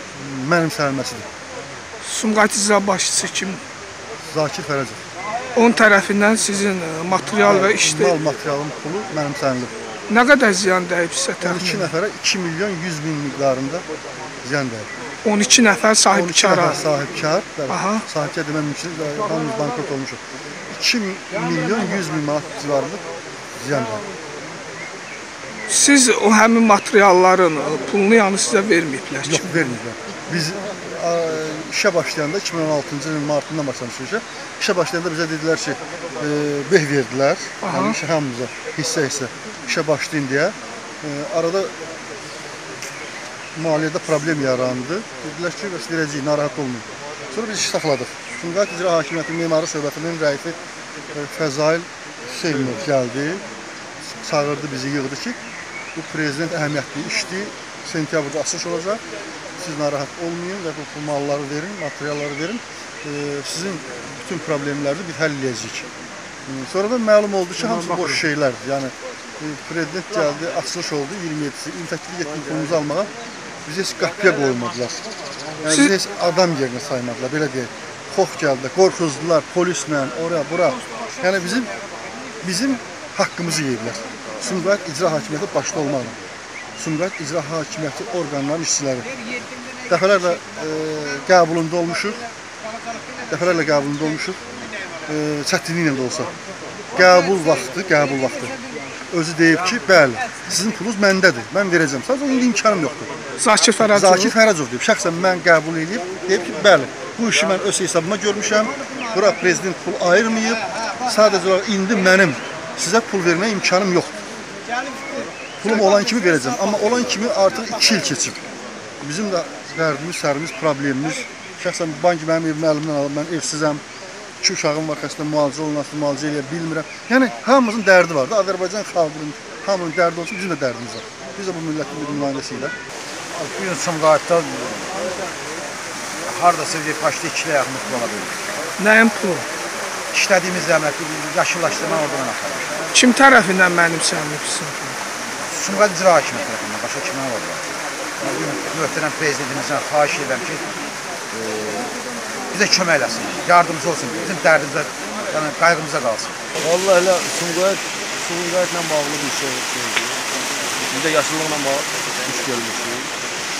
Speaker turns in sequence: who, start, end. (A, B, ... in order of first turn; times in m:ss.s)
0:00.1-0:01.2 A
0:02.0-0:03.6 B
0:04.3-0:05.0 A
0:05.6-0:08.2 B
0:07.3-0:09.7 A
0:10.1-0:11.9 B
0:11.4-0:13.8 A
0:14.4-0:14.9 A
0:15.2-0:16.8 B
0:16.1-0:23.0 A
0:17.7-0:18.0 B
0:23.6-0:24.0 A
0:25.7-0:29.8 B
0:29.2-0:41.7 A
0:37.6-0:38.0 B
0:43.6-0:50.6 A
0:51.1-0:53.4 A
0:54.2-0:55.4 A
0:55.9-0:59.0 A
0:59.6-1:05.8 A
1:06.5-1:13.1 A
1:13.6-1:15.0 A
1:15.6-1:21.7 A
1:22.4-1:26.2 A
1:26.8-1:29.1 A
1:29.9-1:32.2 A
1:33.3-1:34.4 A
1:35.1-1:36.3 A
1:36.9-1:38.5 A
1:39.1-1:43.1 A
1:43.4-1:44.3 B
1:43.8-1:54.1 A
1:55.6-1:58.4 A
1:59.0-2:03.8 A
2:04.4-2:12.7 A
2:13.4-2:15.0 C
2:16.2-2:18.4 C
2:18.8-2:19.4 B
2:20.1-2:22.7 C
2:22.9-2:25.0 B
2:25.5-2:27.6 C
2:28.2-2:30.8 C
2:31.3-2:31.9 C
2:32.5-2:36.3 C
2:36.6-2:40.2 D
2:40.8-2:43.1 D